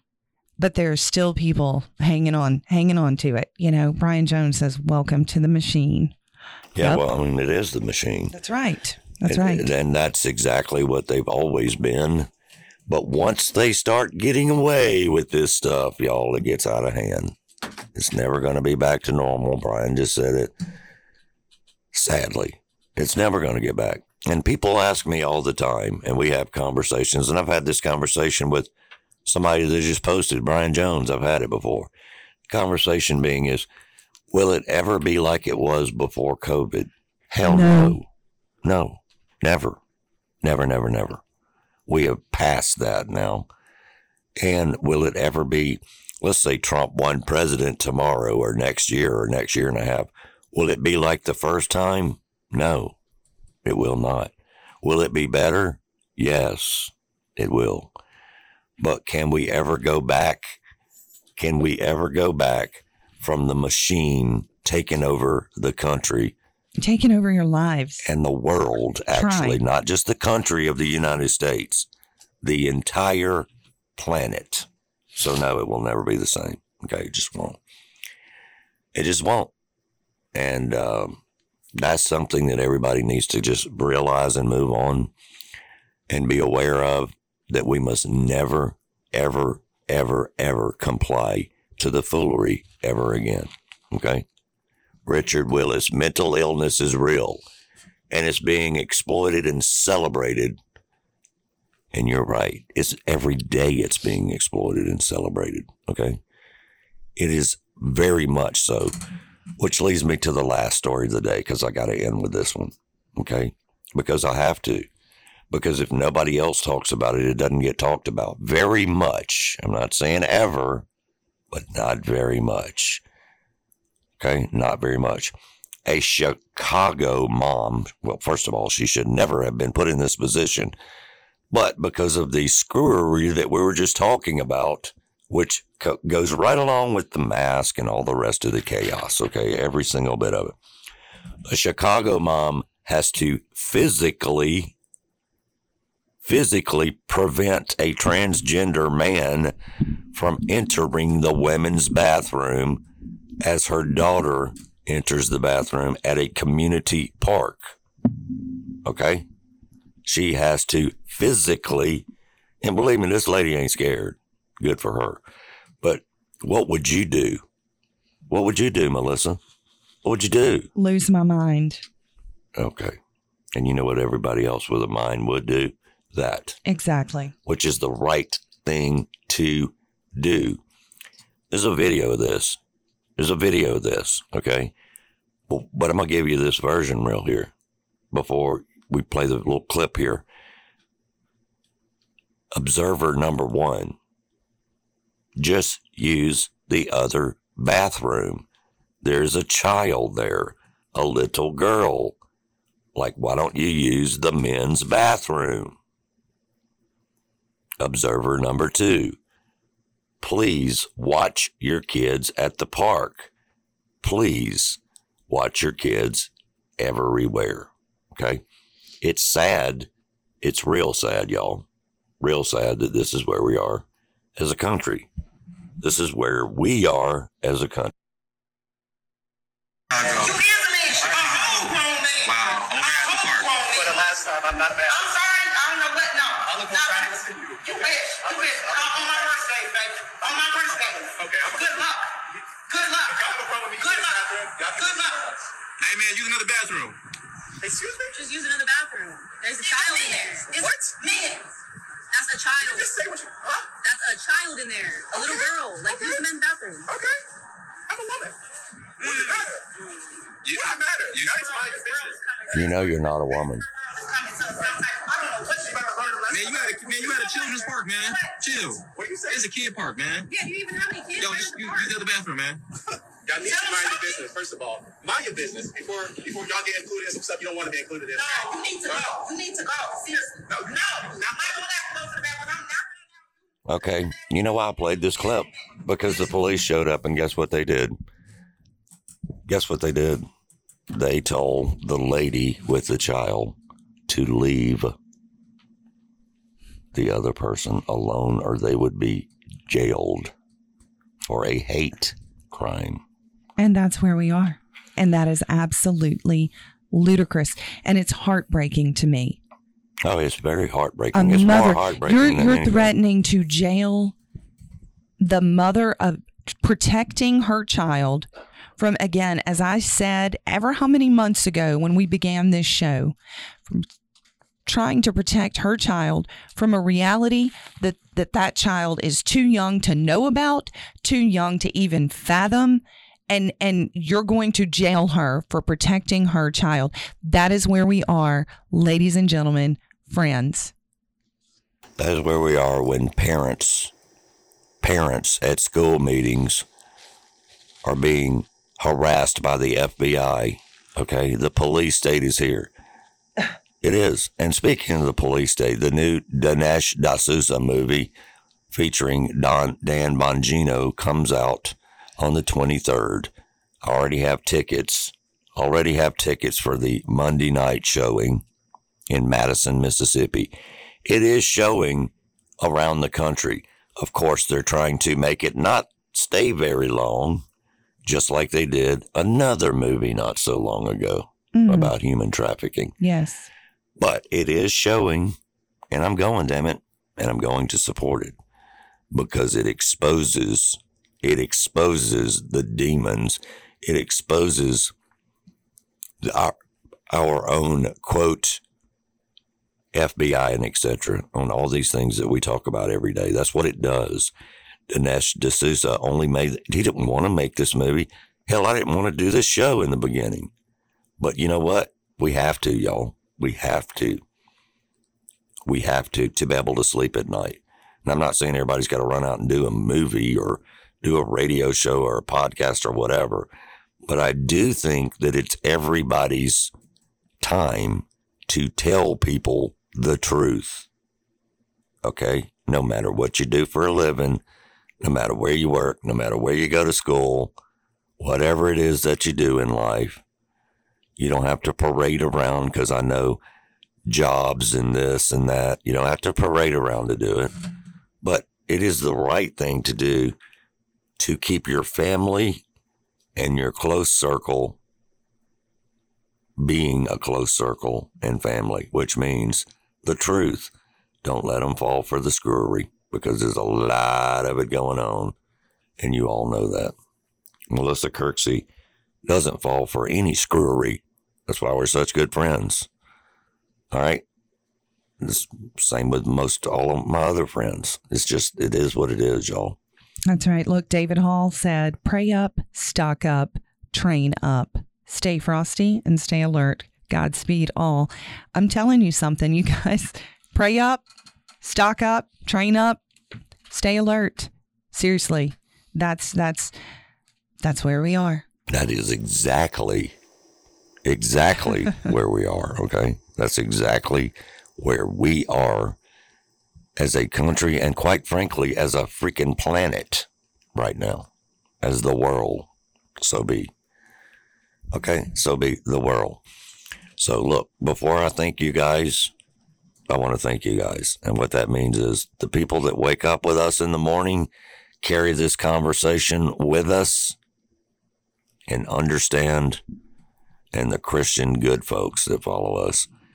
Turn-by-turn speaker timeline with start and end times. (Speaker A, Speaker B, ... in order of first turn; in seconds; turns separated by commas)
Speaker A: 0.6-6.2, Speaker B: 6.8-8.3, Speaker A: 8.3-9.7, Speaker B: 9.2-12.3, Speaker B: 12.9-17.4, Speaker B: 17.9-20.5, Speaker B: 21.9-28.7, Speaker B: 29.2-31.9, Speaker B: 32.5-33.7, Speaker B: 34.3-38.1, Speaker A: 37.4-38.0, Speaker B: 38.6-39.8, Speaker B: 40.4-41.2, Speaker B: 41.9-43.5, Speaker B: 44.4-53.0, Speaker B: 53.6-57.9, Speaker B: 58.8-60.6, Speaker B: 61.4-66.3, Speaker A: 66.8-68.0, Speaker B: 68.0-71.9, Speaker A: 69.1-69.6, Speaker B: 72.4-77.6, Speaker B: 78.9-79.5, Speaker B: 80.3-81.2, Speaker B: 81.8-85.1, Speaker B: 86.1-94.3, Speaker B: 95.1-97.4, Speaker B: 98.1-100.6, Speaker B: 101.9-106.2, Speaker B: 107.2-109.0, Speaker B: 109.6-114.9, Speaker B: 115.5-120.9, Speaker B: 121.5-123.0, Speaker B: 124.2-130.8, Speaker B: 131.5-140.6, Speaker B: 141.4-144.7, Speaker B: 146.2-149.5, Speaker B: 150.1-152.8, Speaker B: 153.4-157.8, Speaker B: 158.8-159.3, Speaker B: 160.0-162.1, Speaker B: 162.6-165.2, Speaker B: 165.8-167.4, Speaker B: 168.3-169.4, Speaker B: 170.0-170.7, Speaker A: 170.8-171.8, Speaker B: 172.6-173.0, Speaker B: 173.6-176.6, Speaker A: 176.7-177.3, Speaker B: 177.4-180.6, Speaker B: 181.5-182.6, Speaker B: 183.2-184.7, Speaker B: 185.5-187.5, Speaker B: 188.1-190.2, Speaker B: 192.5-194.0, Speaker B: 195.4-198.4, Speaker B: 199.0-202.2, Speaker B: 202.9-205.8, Speaker B: 207.8-209.2, Speaker B: 210.2-213.3, Speaker B: 214.0-218.4, Speaker B: 219.0-219.9, Speaker B: 220.4-221.7, Speaker B: 222.2-223.8, Speaker B: 224.4-225.1, Speaker B: 225.8-227.9, Speaker C: 229.9-230.3, Speaker D: 230.2-234.1, Speaker E: 231.0-231.6, Speaker C: 232.2-233.6, Speaker E: 233.1-235.1, Speaker E: 236.5-239.0, Speaker D: 236.6-237.1, Speaker D: 237.6-241.6, Speaker E: 241.2-241.9, Speaker E: 243.1-245.3, Speaker D: 243.8-245.0, Speaker C: 245.8-247.0, Speaker E: 247.6-248.2, Speaker D: 248.1-251.4, Speaker E: 249.6-250.9, Speaker D: 252.1-252.9, Speaker E: 252.6-253.7, Speaker D: 253.8-256.9, Speaker E: 255.2-256.2, Speaker E: 256.9-257.2, Speaker E: 257.9-258.3, Speaker E: 259.0-259.7, Speaker C: 260.4-261.4, Speaker E: 260.5-262.6, Speaker D: 261.3-262.8, Speaker B: 262.5-263.7, Speaker D: 263.8-268.3, Speaker E: 265.6-267.4, Speaker C: 266.3-270.3, Speaker E: 268.9-269.5, Speaker D: 270.3-272.0, Speaker C: 271.2-272.6, Speaker E: 273.3-279.2, Speaker D: 273.4-274.2, Speaker D: 278.2-282.8, Speaker E: 280.5-281.4, Speaker B: 283.7-287.9, Speaker B: 289.5-290.2, Speaker B: 290.9-293.6, Speaker B: 294.1-294.9, Speaker B: 296.9-300.3, Speaker B: 301.2-303.0, Speaker A: 303.6-309.4, Speaker B: 310.1-312.9, Speaker A: 311.1-314.2, Speaker A: 315.2-318.3, Speaker A: 318.8-323.1, Speaker A: 324.7-340.7, Speaker B: 342.0-343.9, Speaker B: 344.8-346.7, Speaker B: 347.8-352.7, Speaker B: 353.8-358.1, Speaker B: 358.7-363.3, Speaker B: 363.8-368.4, Speaker B: 369.1-370.5, Speaker B: 371.0-377.4, Speaker B: 378.0-382.9, Speaker A: 381.5-381.9, Speaker A: 383.0-383.5, Speaker B: 384.0-385.4, Speaker B: 385.9-388.4, Speaker B: 389.1-394.9, Speaker B: 396.2-396.6, Speaker B: 397.1-398.6, Speaker B: 399.9-404.3, Speaker B: 404.9-410.5, Speaker B: 411.2-414.2, Speaker B: 415.7-423.5, Speaker B: 424.1-426.7, Speaker B: 427.4-430.9, Speaker B: 432.0-434.4, Speaker B: 435.0-437.6, Speaker B: 438.2-440.2, Speaker B: 441.2-443.4, Speaker B: 444.1-447.6, Speaker B: 448.2-450.4, Speaker B: 451.2-452.6, Speaker B: 453.4-454.8, Speaker B: 456.6-460.7, Speaker B: 461.2-465.4, Speaker B: 466.0-466.9, Speaker B: 467.7-468.7, Speaker B: 469.2-472.9, Speaker B: 473.9-474.2, Speaker B: 475.2-479.8, Speaker A: 480.3-491.0, Speaker A: 491.6-493.0, Speaker A: 493.7-496.7, Speaker A: 497.6-498.4, Speaker B: 498.7-500.1, Speaker B: 501.0-506.0, Speaker B: 507.0-511.3, Speaker B: 511.8-513.7, Speaker B: 514.9-516.4, Speaker B: 517.2-519.3, Speaker B: 520.1-524.5, Speaker B: 525.0-527.4, Speaker B: 528.7-529.8, Speaker B: 530.7-533.1